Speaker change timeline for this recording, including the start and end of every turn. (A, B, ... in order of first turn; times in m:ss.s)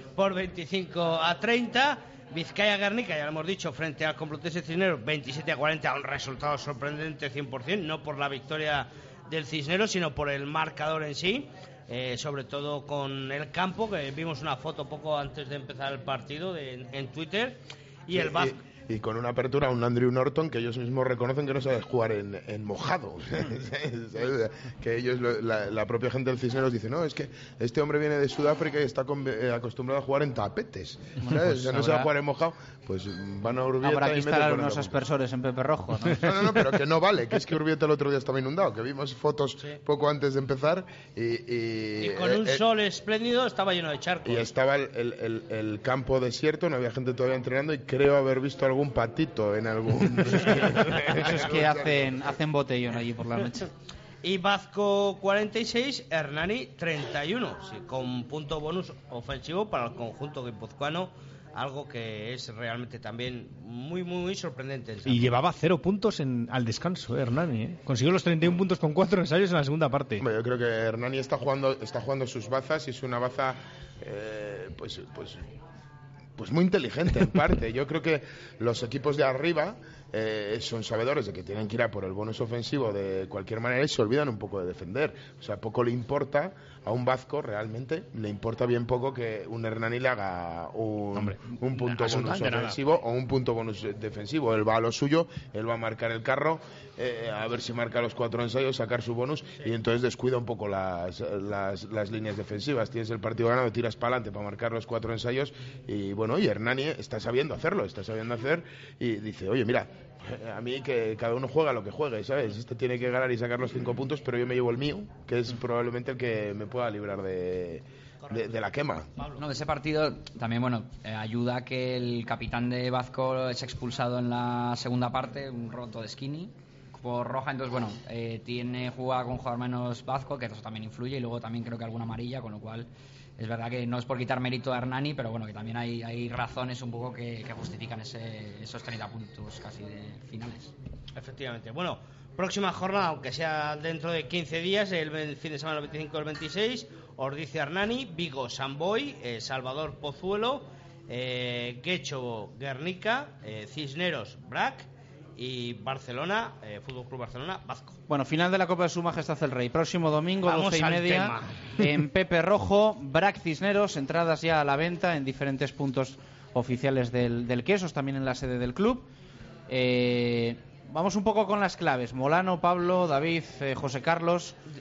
0:00.2-0:18.6 A
0:18.1-0:35.0 B
0:31.2-0:32.1 C
0:33.8-0:36.5 C
0:36.2-0:42.6 B
0:42.0-0:44.5 A
0:44.2-0:52.2 B
0:51.1-0:53.7 C
0:54.2-1:05.3 A
1:05.1-1:10.2 D
1:10.2-1:15.4 B
1:16.4-1:59.1 B
1:31.2-1:32.8 D
1:58.2-1:58.6 A
1:59.2-1:59.4 A
1:59.4-2:20.7 E
2:21.2-2:38.0 A
2:38.1-2:49.1 C
2:40.4-2:41.5 A
2:49.7-2:54.6 C